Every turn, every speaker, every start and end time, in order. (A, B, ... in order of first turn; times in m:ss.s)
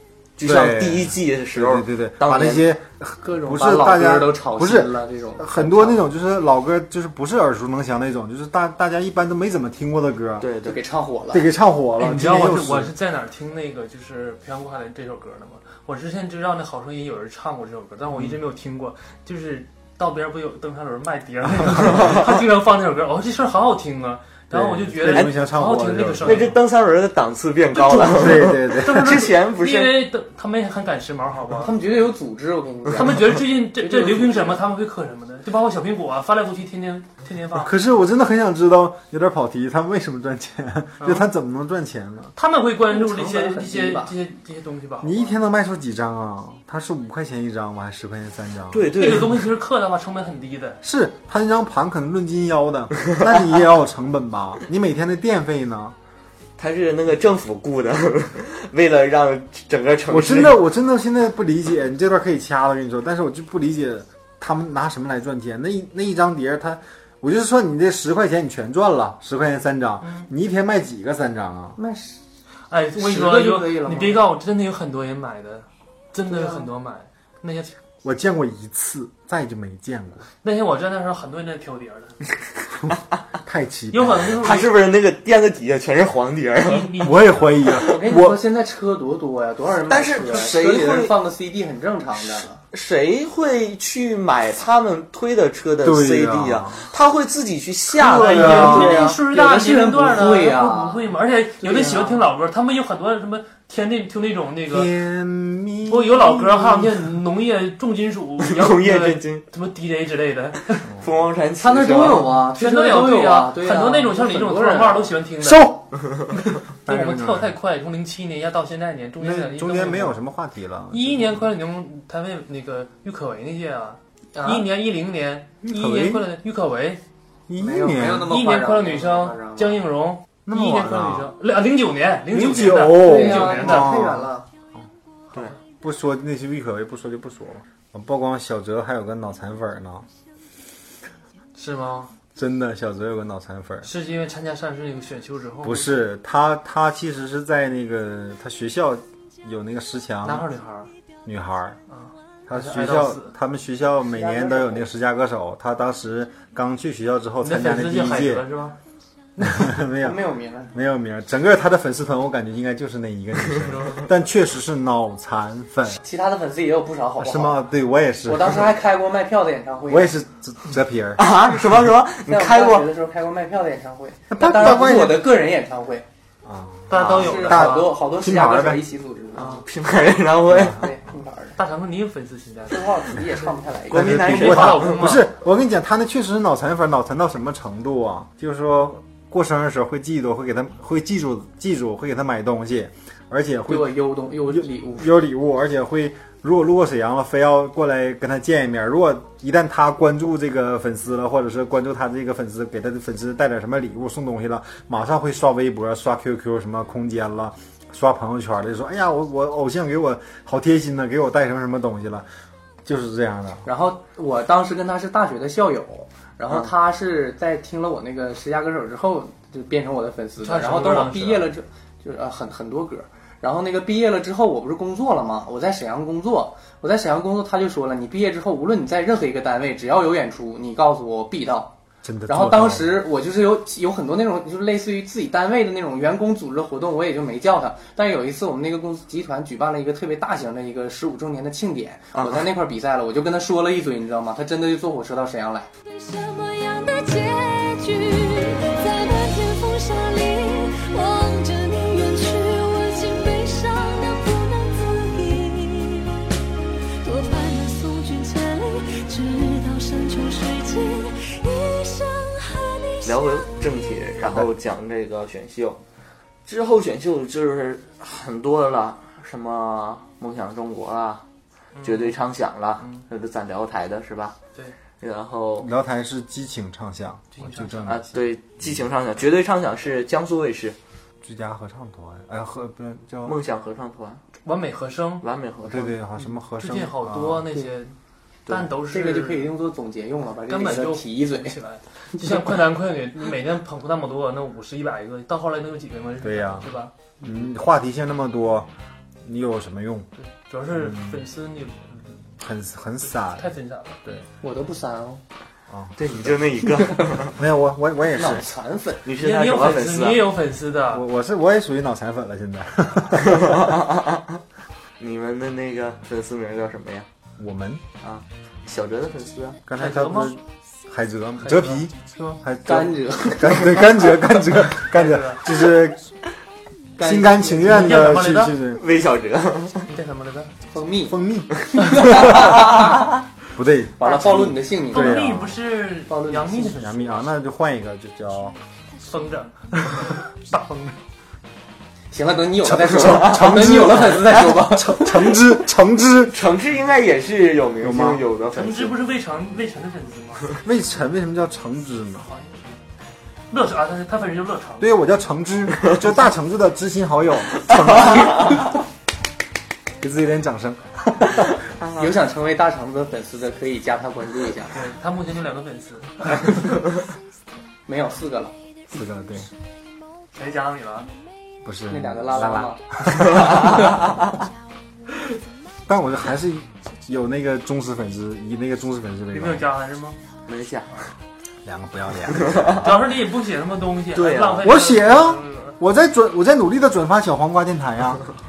0:00.4-0:02.6 A
0:00.4-0:10.5 B
0:03.2-0:06.0 C
0:10.4-0:10.8 A
0:10.6-0:11.5 C
0:11.3-0:12.9 B
0:12.0-0:26.6 D
0:24.5-0:26.6 B
0:25.1-0:25.3 A
0:26.2-0:30.1 A
0:27.7-0:31.7 D
0:28.1-0:29.2 B
0:31.5-0:34.6 C
0:32.9-0:37.7 D
0:37.5-0:42.3 B
0:41.0-0:41.3 D
0:42.3-0:45.4 D
0:42.9-0:44.1 C
0:45.0-0:48.9 B
0:48.7-0:49.4 A
0:48.9-0:50.8 D
0:50.8-0:56.0 B
0:56.6-1:00.6 A
1:00.1-1:11.8 B
1:11.8-1:12.2 C
1:12.7-1:17.8 D
1:13.0-1:14.2 C
1:16.3-1:16.7 C
1:18.0-1:20.3 B
1:20.4-1:22.2 D
1:22.9-1:24.4 B
1:23.9-1:24.7 D
1:24.4-1:27.1 A
1:26.6-1:27.4 D
1:27.0-1:28.4 B
1:27.8-1:32.6 C
1:29.9-1:31.1 A
1:32.7-1:39.2 A
1:35.8-1:36.9 B
1:38.0-1:44.9 D
1:38.2-1:39.0 B
1:38.2-1:41.1 C
1:41.6-1:42.2 C
1:44.7-1:47.1 B
1:45.9-1:50.9 D
1:48.4-1:49.4 A
1:51.0-1:52.4 A
1:51.6-1:55.1 C
1:52.2-1:55.8 D
1:55.4-1:56.0 B
1:56.3-2:00.2 D
1:56.8-1:57.5 B
1:59.2-2:01.5 B
2:00.9-2:07.0 D
2:04.4-2:04.6 C
2:05.6-2:06.2 B
2:07.5-2:08.3 B
2:07.6-2:09.8 C
2:08.2-2:14.0 D
2:10.4-2:11.3 B
2:12.3-2:14.3 B
2:12.9-2:14.5 C
2:15.8-2:20.1 B
2:21.5-2:22.1 D
2:22.3-2:23.9 B
2:23.8-2:26.0 D
2:25.6-2:30.5 B
2:30.2-2:30.9 D
2:30.6-2:30.9 C
2:31.2-2:31.8 B
2:31.9-2:33.3 D
2:32.5-2:38.4 B
2:34.0-2:34.8 C
2:37.4-2:38.8 D
2:39.4-2:40.2 B
2:40.0-2:40.7 C
2:40.7-2:46.0 B
2:43.7-2:44.0 D
2:46.0-2:47.6 C
2:47.2-2:48.7 B
2:48.2-2:50.1 C
2:49.9-2:51.2 B
2:51.2-2:52.9 A
2:52.3-2:56.1 C
2:54.3-2:55.3 B
2:56.4-2:58.8 B
2:56.9-2:57.8 D
2:56.9-2:57.8 A
2:57.1-2:59.6 C
2:59.3-3:00.9 A
3:00.5-3:00.8 B
3:00.6-3:01.6 C
3:01.6-3:03.5 D
3:02.7-3:04.3 C
3:03.9-3:05.2 A
3:03.9-3:32.3 B
3:04.1-3:05.3 D
3:13.7-3:15.1 C
3:32.8-3:33.7 B
3:33.6-3:51.7 C
3:40.4-3:41.5 D
3:52.0-3:53.0 B
3:52.3-4:05.7 C
4:05.9-4:16.2 E
4:17.0-4:23.2 E
4:23.0-4:25.8 A
4:26.4-4:31.2 A
4:31.8-4:34.4 A
4:35.0-4:35.7 A
4:35.6-4:38.8 B
4:37.3-4:37.9 D
4:37.9-4:40.8 A
4:41.2-4:43.4 B
4:43.2-4:44.2 A
4:44.4-4:45.2 D
4:45.2-4:45.9 A
4:45.6-4:47.5 B
4:46.2-4:48.0 D
4:48.5-4:49.5 D
4:48.8-4:51.6 C
4:50.5-4:56.9 D
4:52.1-4:52.5 C
4:56.2-4:56.7 B
4:57.2-4:58.7 B
4:59.2-5:00.1 B
5:00.2-5:02.1 D
5:00.7-5:01.2 B
5:02.4-5:03.5 B
5:03.0-5:04.0 D
5:04.4-5:05.2 C
5:05.7-5:06.5 B
5:06.0-5:07.4 A
5:07.2-5:08.6 B
5:08.1-5:09.1 C
5:09.0-5:10.3 A
5:09.1-5:11.0 D
5:10.9-5:13.8 B
5:13.4-5:14.2 A
5:15.0-5:17.1 A
5:17.4-5:17.8 B
5:18.0-5:19.6 A
5:19.7-5:26.1 B
5:19.7-5:20.4 D
5:21.4-5:21.8 D
5:22.6-5:24.1 C
5:24.8-5:25.4 D
5:27.0-5:28.0 C
5:27.0-5:28.8 B
5:27.6-5:28.6 D
5:28.7-5:29.9 A
5:29.8-5:30.5 D
5:30.7-5:31.2 C
5:31.1-5:32.6 B
5:31.8-5:33.1 C
5:33.5-5:34.3 B
5:34.0-5:35.2 C
5:34.1-5:37.3 D
5:34.9-5:35.6 B
5:36.1-5:36.8 C
5:36.8-5:38.6 B
5:39.1-5:41.0 D
5:42.1-5:45.4 C
5:42.6-5:46.4 B
5:43.0-5:43.6 A
5:46.3-5:49.0 A
5:47.8-5:48.2 B
5:48.5-5:50.6 D
5:50.6-5:52.3 B
5:52.2-5:52.8 D
5:53.5-5:55.0 D
5:54.8-5:58.3 B
5:57.7-5:58.5 A
6:00.0-6:01.5 B
6:01.8-6:02.1 A
6:02.0-6:04.8 C
6:04.7-6:06.7 D
6:07.8-6:08.5 C
6:08.9-6:09.5 B
6:10.3-6:11.1 D
6:11.6-6:13.9 B
6:11.9-6:14.1 C
6:13.3-6:13.9 A
6:15.9-6:19.6 B
6:19.3-6:20.2 D
6:20.5-6:20.9 A
6:21.6-6:22.8 B
6:22.4-6:22.8 A
6:22.8-6:25.8 D
6:24.1-6:24.7 A
6:24.6-6:28.3 B